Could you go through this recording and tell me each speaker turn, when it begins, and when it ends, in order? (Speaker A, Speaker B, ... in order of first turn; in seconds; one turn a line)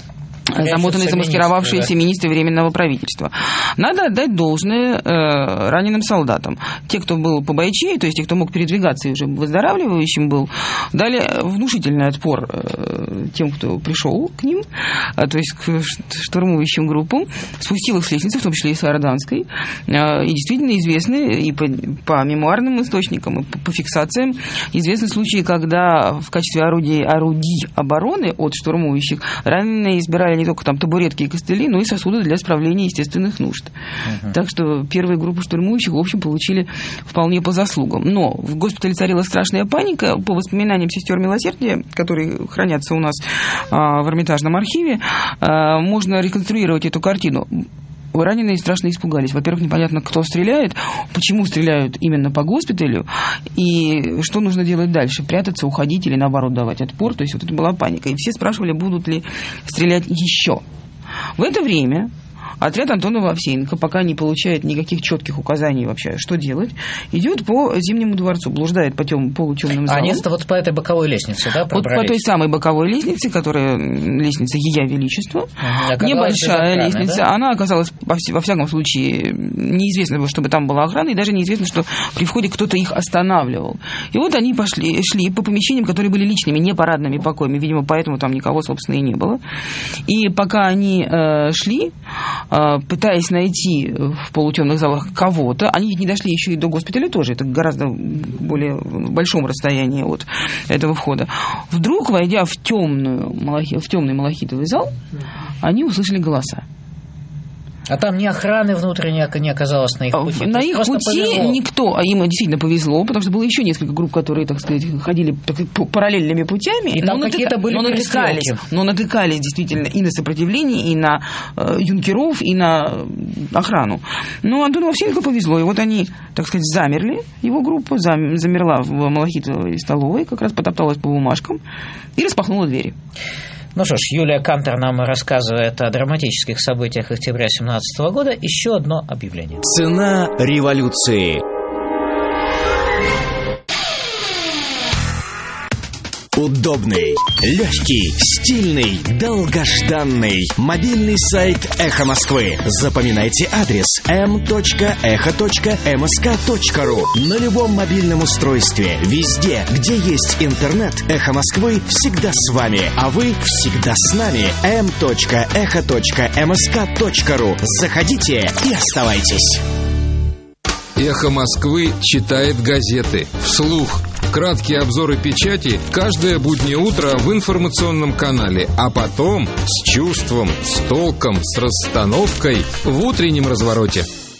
Speaker A: 0.5-33.7
Speaker B: 0.6-1.9
Speaker B: 34.0-34.3
Speaker A: 34.3-60.6
Speaker A: 61.4-70.2
Speaker B: 69.8-72.2
Speaker A: 71.7-89.4
Speaker B: 75.6-77.2
Speaker A: 90.1-91.9
Speaker A: 92.5-104.9
Speaker A: 105.6-106.6
Speaker B: 107.9-111.6
Speaker A: 110.1-131.6
Speaker B: 116.9-118.6
Speaker A: 132.2-132.9
Speaker B: 133.7-139.6
Speaker C: 139.6-141.4
Speaker C: 146.3-169.6
Speaker D: 170.9-184.1